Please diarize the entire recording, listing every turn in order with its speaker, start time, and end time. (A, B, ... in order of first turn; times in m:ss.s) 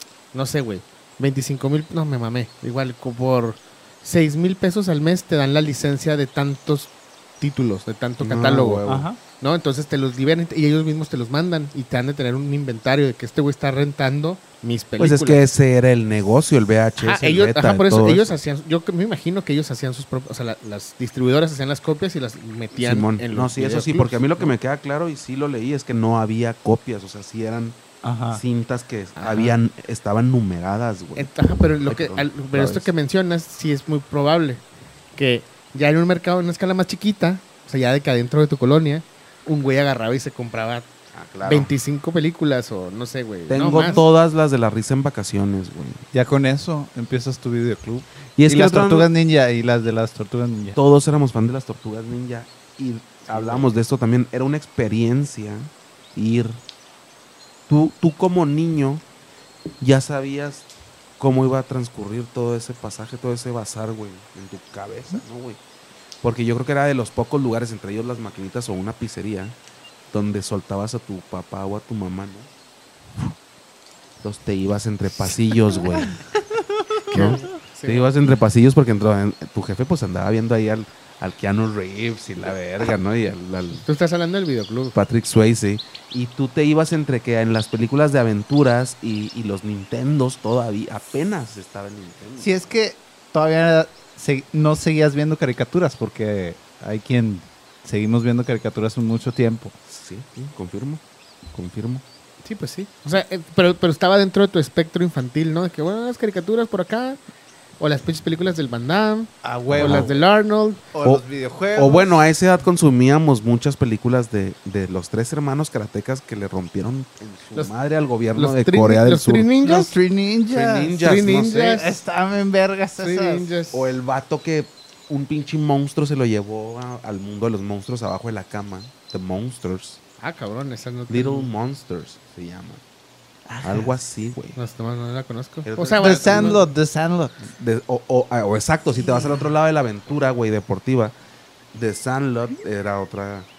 0:00.3-0:08.9 A
0:08.2-0:09.1 B
0:08.9-0:09.2 C
0:09.4-0:15.4 A
0:15.0-0:18.4 B
0:17.0-0:24.6 A
0:22.7-0:27.8 B
0:28.0-0:28.4 C
0:28.3-0:32.9 B
0:29.2-0:29.6 A
0:31.2-0:34.6 A
0:35.2-0:40.9 A
0:41.1-0:41.7 B
0:41.4-0:44.1 A
0:43.5-0:46.0 B
0:46.1-0:50.8 C
0:48.4-0:49.1 B
0:50.8-0:56.6 B
0:53.3-0:53.7 C
0:57.7-0:59.0 B
0:59.8-1:00.7 B
1:01.2-1:05.6 B
1:06.2-1:09.6 B
1:10.1-1:12.5 B
1:14.2-1:16.2 B
1:15.3-1:17.4 C
1:17.1-1:23.8 B
1:17.1-1:18.1 A
1:23.8-1:25.0 A
1:24.9-1:32.5 B
1:32.4-1:39.7 C
1:39.9-1:42.0 B
1:42.4-1:47.2 A
1:47.8-1:50.8 A
1:49.4-1:50.2 C
1:49.7-1:50.1 B
1:50.9-1:52.2 C
1:51.0-1:59.6 B
1:58.4-1:59.9 A
1:59.6-2:01.0 C
2:00.5-2:01.9 B
2:01.0-2:02.0 A
2:01.7-2:03.5 C
2:03.0-2:04.0 A
2:03.7-2:10.0 B
2:10.2-2:11.5 A
2:11.1-2:12.8 B
2:13.5-2:13.8 C
2:13.6-2:14.6 B
2:14.6-2:16.7 A
2:15.6-2:16.7 B
2:16.0-2:17.4 C
2:17.4-2:21.2 B
2:19.0-2:19.4 C
2:21.7-2:23.5 B